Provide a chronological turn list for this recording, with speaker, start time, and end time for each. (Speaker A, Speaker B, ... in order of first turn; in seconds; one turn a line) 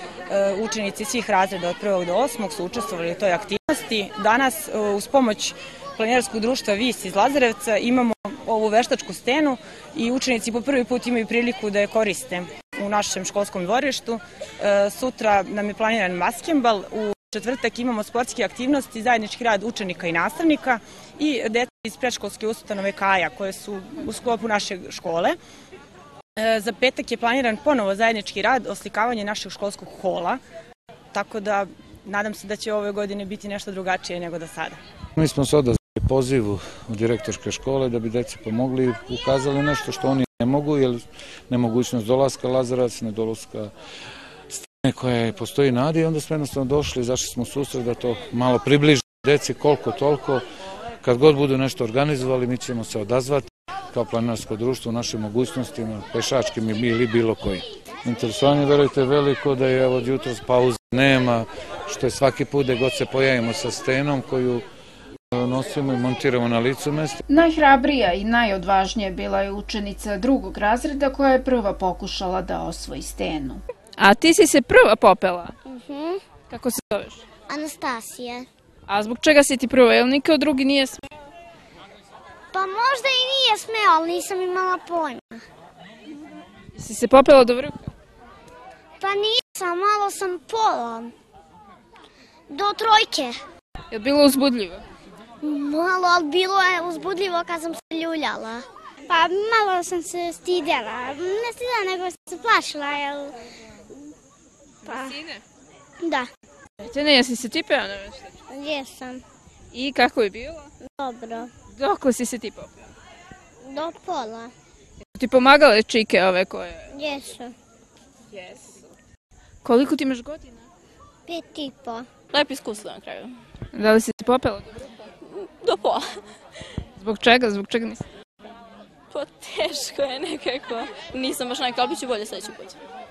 Speaker A: 0.3-25.4
Speaker A: 26.4-30.4
Speaker A: 31.1-34.8
Speaker B: 35.2-43.7
Speaker B: 44.5-50.4
Speaker B: 51.0-64.6
Speaker B: 65.3-67.2
Speaker C: 67.3-73.6
Speaker D: 74.0-75.5
Speaker E: 75.7-76.2
Speaker D: 76.5-77.2
Speaker E: 77.5-78.5
Speaker D: 78.9-81.0
Speaker E: 82.5-85.4
Speaker D: 86.8-87.9
Speaker E: 89.0-91.1
Speaker E: 92.5-93.4
Speaker D: 93.9-94.8
Speaker E: 95.4-103.3
Speaker E: 104.8-105.2
Speaker E: 106.0-106.3
Speaker D: 106.9-108.2
Speaker E: 108.5-109.2
Speaker D: 109.7-110.6
Speaker E: 110.8-111.5
Speaker D: 111.8-112.7
Speaker E: 113.6-114.5
Speaker D: 115.2-116.8
Speaker E: 116.9-117.5
Speaker D: 119.6-120.6
Speaker E: 121.3-122.1
Speaker F: 122.3-123.3
Speaker D: 123.7-124.7
Speaker F: 125.3-126.0
Speaker D: 127.0-128.0
Speaker F: 129.1-132.8